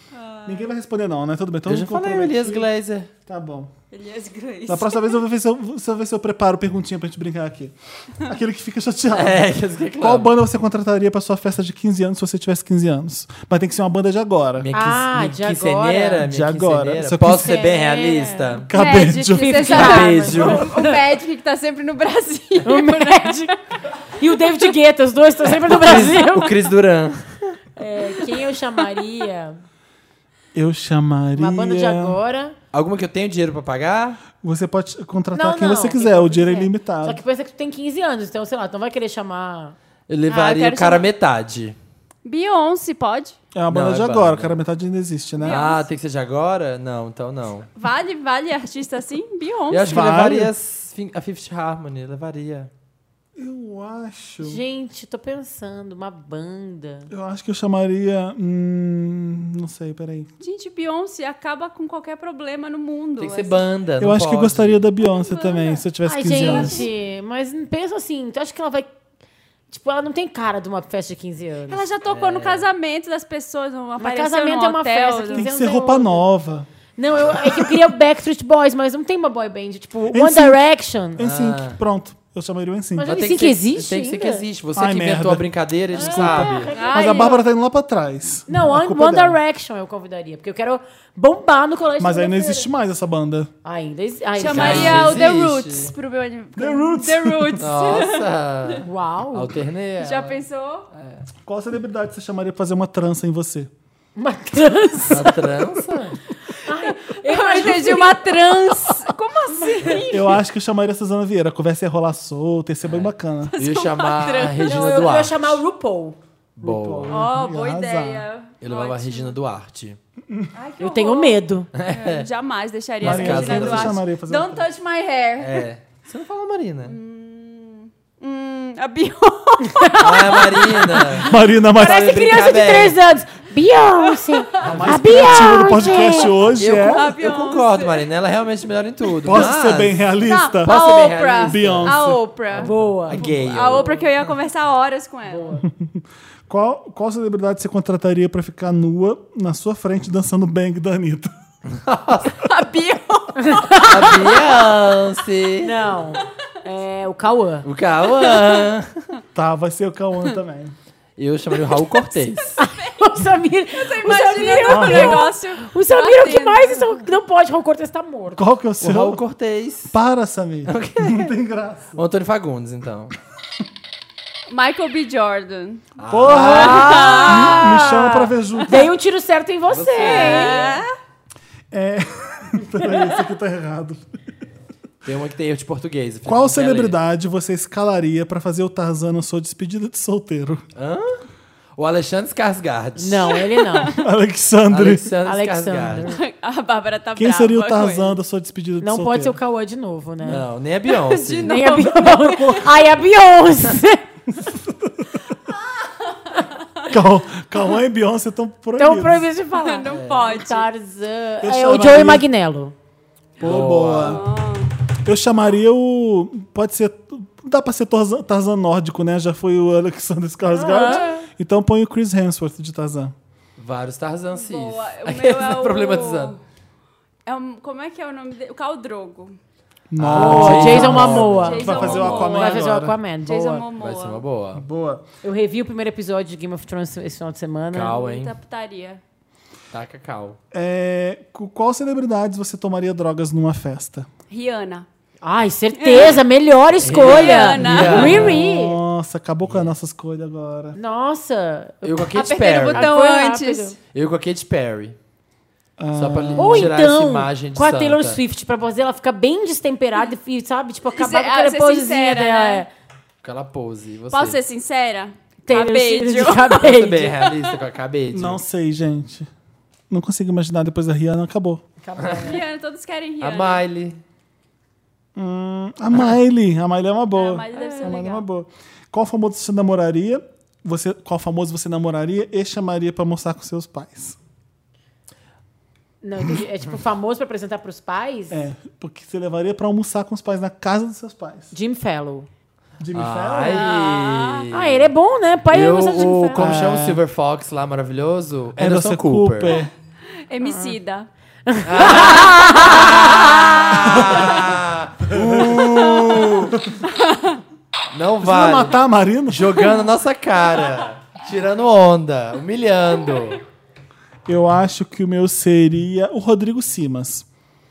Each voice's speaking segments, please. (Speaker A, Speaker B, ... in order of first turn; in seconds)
Speaker A: 0.1-0.7, 3.9-5.2, 18.7-23.5, 40.3-41.1, 42.2-43.4, 45.4-45.9, 47.8-50.0, 60.4-63.6, 65.0-66.9, 71.7-75.5, 86.7-87.4, 94.4-98.8, 100.0-100.9, 107.1-110.2, 113.5-115.2, 117.1-119.4, 120.5-125.7, 126.8-130.6, 134.4-134.8, 136.8-138.1, 139.2-139.5, 140.2-145.5, 152.4-154.4, 158.0-158.7, 162.6-167.0, 174.5-178.0, 180.0-180.9, 196.1-198.2, 200.8-202.5, 205.8-206.9, 209.6-210.7, 213.5-214.7, 224.3-226.4, 227.3-229.4, 231.4-232.6, 233.3-234.2, 237.9-239.0, 244.3-244.9, 245.8-246.2, 247.0-248.3, 252.2-253.8, 260.9-262.6, 264.1-267.6, 272.2-273.6, 277.1-278.2, 293.4-294.5, 300.3-301.1, 306.9-307.4
Speaker B: 0.5-2.7, 3.3-3.7, 4.7-14.7, 16.2-17.6, 18.7-20.0, 30.5-32.2, 34.4-37.2, 43.5-45.6, 49.9-50.5, 53.4-54.6, 57.1-60.3, 64.0-66.9, 75.3-76.7, 77.3-77.7, 80.1-83.2, 84.8-89.4, 92.0-93.5, 96.6-97.7, 101.4-103.7, 110.1-113.5, 116.6-118.3, 123.0-124.7, 131.2-132.3, 134.6-137.1, 139.2-140.8, 141.5-142.2, 145.6-151.3, 159.3-160.8, 164.7-165.3, 168.3-169.2, 169.9-172.0, 176.1-178.9, 181.7-184.0, 186.3-190.7, 193.9-195.1, 197.2-199.4, 201.7-202.8, 204.4-205.1, 206.9-209.3, 211.4-212.2, 213.4-214.2, 215.1-223.1, 229.9-233.0, 234.5-235.1, 240.5-244.1, 247.8-250.8, 255.8-256.8, 268.1-269.3, 269.9-271.6, 275.1-284.2, 288.3-291.5, 292.8-293.7, 296.3-297.0, 298.6-299.7, 303.9-304.6, 305.1-305.8, 308.2-309.7, 314.3-317.3
Speaker C: 1.7-3.1, 9.1-10.3, 14.6-18.7, 19.8-20.7, 25.5-27.6, 32.7-34.2, 40.1-41.8, 43.7-44.6, 45.4-47.7, 49.7-52.7, 63.2-64.8, 72.1-72.7, 81.2-81.8, 83.0-86.7, 94.5-95.9, 97.6-100.4, 100.9-101.2, 105.1-106.2, 112.8-115.6, 116.6-117.2, 118.6-120.0, 121.8-122.3, 123.0-124.0, 125.4-127.0, 130.0-133.0, 134.6-135.9, 136.6-142.0, 142.5-144.0, 151.7-152.4, 153.8-155.8, 157.6-159.0, 161.2-162.6, 168.8-169.9, 170.7-171.3, 171.9-173.1, 176.0-177.5, 179.7-180.7, 185.0-187.0, 190.8-191.2, 191.8-193.4, 194.7-196.1, 200.2-201.6, 209.9-210.3, 213.4-214.2, 223.6-226.4, 230.0-232.4, 233.8-234.6, 237.7-238.3, 239.7-240.4, 246.8-248.4, 249.5-249.7, 251.8-252.9, 253.9-255.0, 255.9-258.2, 263.2-264.4, 266.6-268.4, 272.0-272.3, 273.2-274.0, 292.9-294.9, 295.5-299.6, 301.6-306.6, 307.9-308.8, 309.3-313.4
Speaker D: 14.7-16.2, 17.2-18.7, 19.2-21.0, 22.6-23.6, 24.2-26.6, 27.8-29.6, 31.4-32.6, 35.3-39.8, 54.4-57.1, 66.1-68.9, 69.7-71.8, 74.0-76.2, 77.0-81.2, 83.0-84.5, 85.9-87.3, 88.5-92.7, 93.6-95.2, 98.8-99.5, 104.2-106.0, 106.5-108.9, 109.5-110.4, 114.6-116.2, 120.8-121.7, 129.7-131.3, 131.8-136.4, 142.6-144.1, 145.3-145.7, 153.4-153.9, 155.6-157.7, 162.6-168.4, 176.5-178.0, 178.7-180.8, 193.0-194.0, 195.2-196.2, 198.8-200.5, 201.4-204.1, 208.8-212.8, 220.5-221.3, 230.1-233.7, 235.2-237.9, 245.2-248.8, 250.8-253.8, 256.4-262.7, 265.5-267.1, 271.8-272.4, 286.0-288.4, 291.5-292.3, 294.5-296.5, 300.4-300.8, 301.5-303.1